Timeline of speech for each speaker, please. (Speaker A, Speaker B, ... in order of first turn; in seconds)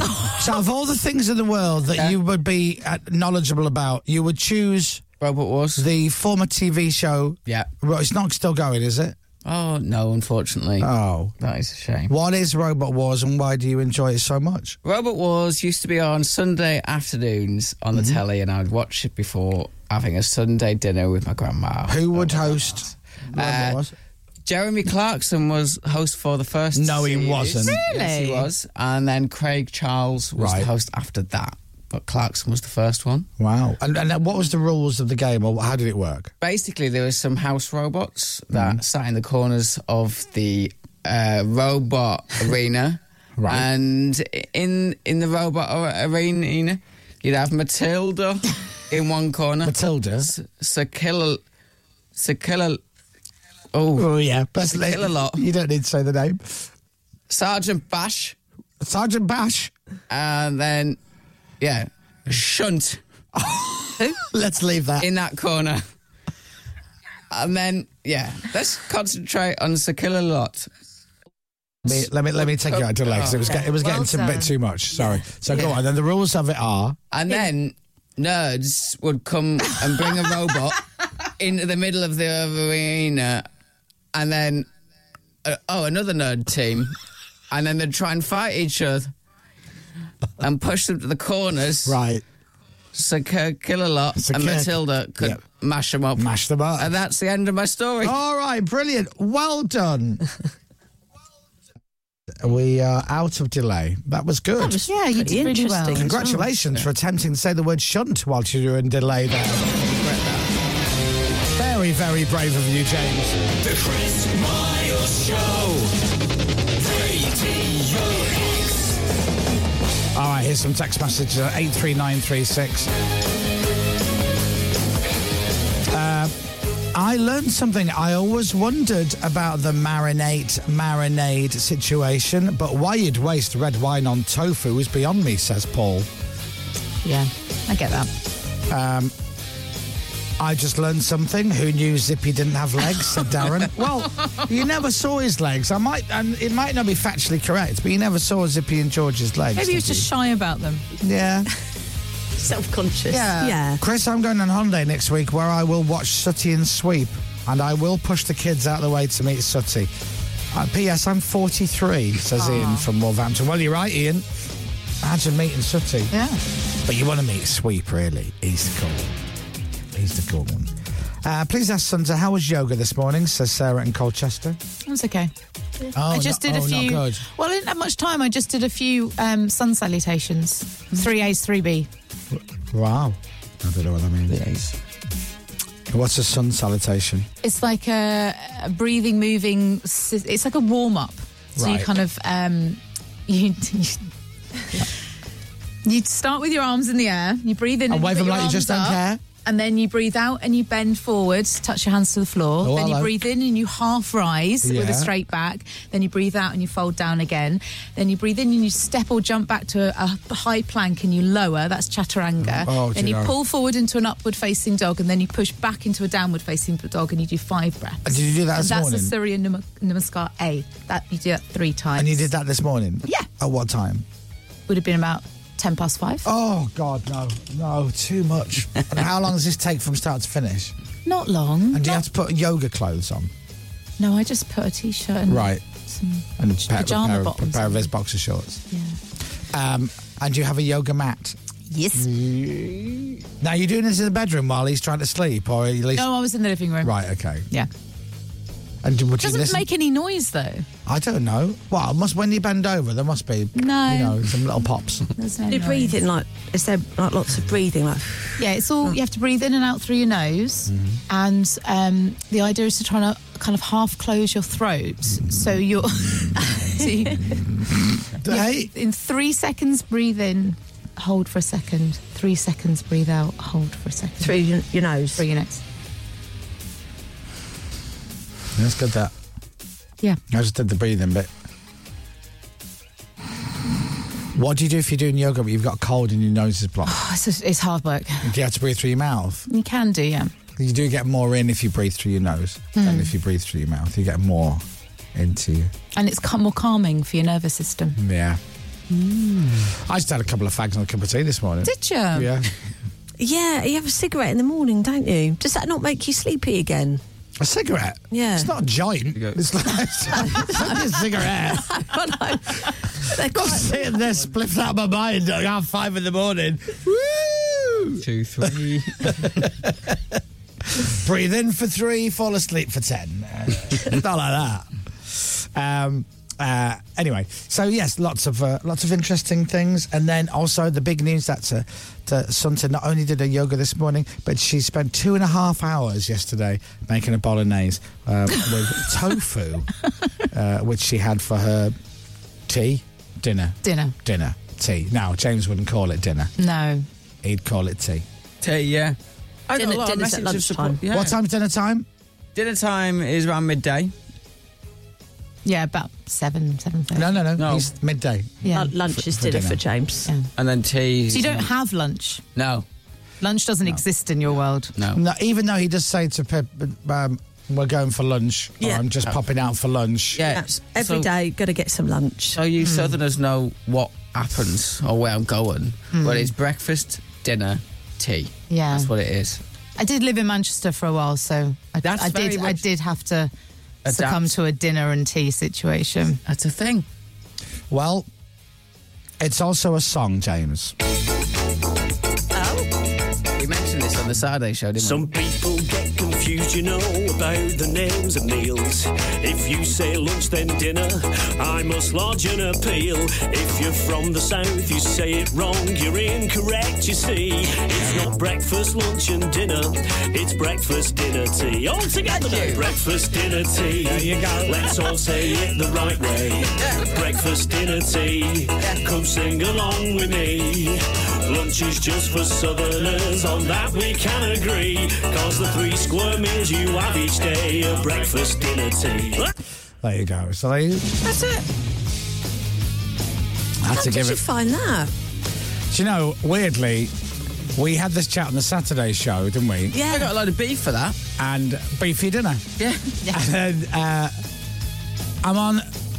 Speaker A: 0.4-5.0, 5.8-9.2, 10.8-11.4, 12.1-14.8, 17.9-18.2, 21.9-23.9, 26.7-27.8, 30.4-30.7, 33.4-36.3, 38.5-38.8, 43.4-43.7, 49.6-50.3, 54.0-56.6, 58.8-59.7, 63.4-65.1, 71.8-77.0, 91.8-92.2, 94.2-95.4, 96.2-96.9, 98.0-100.2, 102.4-104.8, 105.9-109.7, 111.5-113.5, 120.1-122.9, 125.9-126.3, 126.9-136.1, 138.7-139.1, 140.4-150.1, 151.0-151.5, 153.1-159.9, 160.5-164.3, 165.0-166.1, 166.8-169.2, 169.9-174.6, 175.9-177.2, 182.3-184.4, 185.9-187.3, 191.6-191.9, 197.9-199.2, 202.6-203.1, 204.6-205.1, 212.4-213.3, 218.1-219.2, 222.0-224.1, 226.2-230.7, 231.7-233.3, 235.3-235.6, 236.4-238.6, 239.5-241.4, 241.9-246.1, 246.8-247.5, 248.8-249.7, 250.9-255.1, 260.7-261.0, 267.6-268.7, 278.6-279.1, 280.3-281.3, 284.3-287.0, 288.2-289.5, 290.6-294.6, 295.1-295.7, 298.0-298.4, 299.6-302.5, 307.4-311.7, 313.2-320.0, 320.8-339.7, 340.3-341.8, 342.5-346.3, 347.2-348.1, 350.9-351.9, 356.9-359.6, 364.9-370.2, 387.7-388.1, 389.2-390.7, 413.8-414.7, 429.8-430.9, 433.6-434.2, 435.7-436.9, 437.6-439.8, 441.2-442.4, 443.1-444.1, 445.2-445.7
Speaker B: 5.2-5.9, 9.4-12.1, 14.8-22.6, 23.3-23.8, 24.4-33.3, 36.4-51.4, 52.2-52.8, 53.7-54.1, 54.6-55.4, 57.3-58.4, 60.1-61.0, 61.6-63.0, 65.0-65.8, 67.3-70.7, 72.6-73.6, 77.1-80.8, 81.4-83.5, 84.1-84.7, 85.4-86.9, 87.5-89.1, 90.4-92.0, 92.9-98.2, 110.0-110.5, 184.3-184.7, 309.1-309.4, 318.0-319.4, 348.4-349.0, 349.5-351.1, 352.4-353.9, 357.4-357.7, 360.4-361.5, 362.4-362.6, 370.2-371.1, 372.3-379.4, 381.8-382.7, 383.8-384.4, 386.3-386.9, 393.4-395.1, 412.1-412.7, 439.9-441.0, 442.6-442.9
Speaker C: 27.6-28.5, 73.5-74.5, 104.9-106.1, 137.0-138.1, 149.6-150.9, 162.4-162.9, 166.1-166.4, 174.8-175.3, 176.1-181.9, 187.4-194.1, 195.8-222.3, 224.7-226.3, 231.1-232.0, 234.0-237.9, 238.7-239.0, 241.7-242.1, 245.9-246.9, 249.2-250.7, 253.6-254.2, 255.2-256.0, 258.4-267.4, 268.3-274.4, 275.2-275.6, 286.9-288.3, 289.5-290.3, 292.8-293.1, 295.9-298.0, 301.6-302.4, 343.6-343.9, 346.4-346.9, 355.4-357.2, 358.4-358.7, 361.1-362.2, 363.2-364.7, 372.6-373.0, 375.9-376.3, 378.5-378.9, 379.8-383.3, 383.9-386.2
Speaker D: 104.6-106.5, 152.4-153.8, 255.5-258.4, 274.2-275.2, 303.2-307.0, 308.1-308.5, 310.1-314.0, 349.6-350.8, 358.5-360.1, 368.6-368.9, 370.2-372.4, 392.4-392.7, 431.0-431.5, 433.7-434.9, 439.7-440.1
Speaker E: 113.7-115.9, 117.0-118.7
Speaker F: 394.8-429.3